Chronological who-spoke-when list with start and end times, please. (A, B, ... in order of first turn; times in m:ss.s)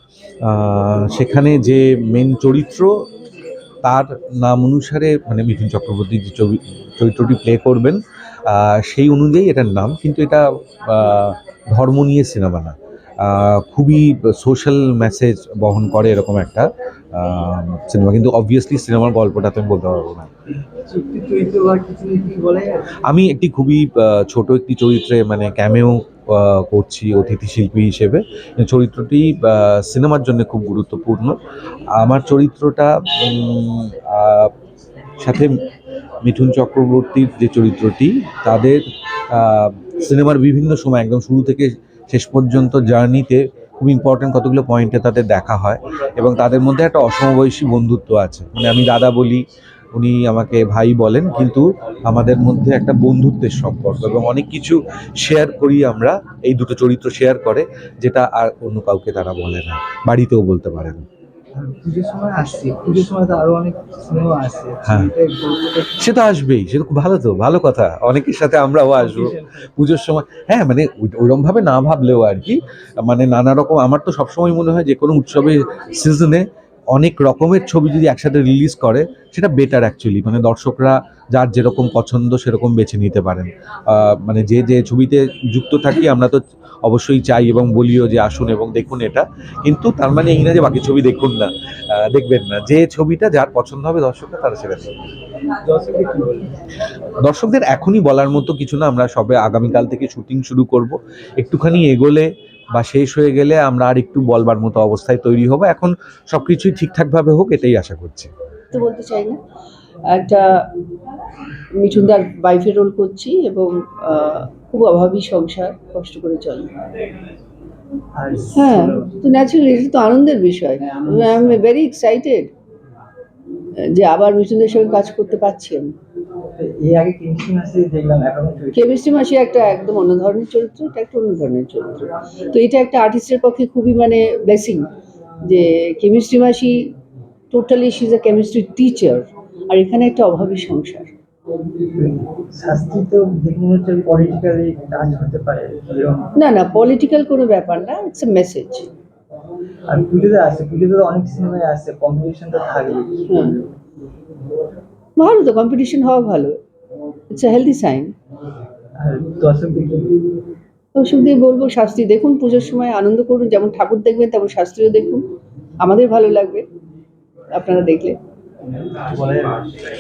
0:00.5-0:02.9 A
0:03.8-0:08.0 A
0:08.5-0:12.7 A
0:13.3-0:16.6 A
0:17.2-0:20.3 A
0:20.5-0:22.8 B
0:23.1-0:31.4 A
0:32.0-0:34.5 A
0:35.2-0:35.5 A
0:36.2-0:38.8 A
0:39.3-0:49.4 A
0:49.9-1:01.0 A
1:01.5-1:05.9 B
1:06.0-1:09.3 A
1:09.0-1:09.6 B
1:09.8-1:12.5 A
1:13.0-1:31.5 A
1:32.0-1:34.9 A
1:35.6-1:36.5 B
1:37.3-1:48.3 A
1:48.7-1:49.4 C
1:50.1-1:50.5 C
1:51.8-1:56.7 C
1:58.1-1:59.1 B
1:58.6-2:02.5 C
2:01.0-2:01.4 B
2:03.9-2:05.9 C
2:06.6-2:08.9 B
2:08.8-2:14.9 C
2:15.4-2:16.7 C
2:17.5-2:21.1 C
2:22.0-2:26.3 B
2:26.4-2:28.9 C
2:29.9-2:33.7 B
2:33.3-2:33.6 C
2:35.2-2:36.6 C
2:37.3-2:38.1 C
2:39.0-2:40.4 B
2:41.0-2:45.2 C
2:45.8-2:46.6 C
2:47.5-2:48.2 C
2:48.7-2:49.9 B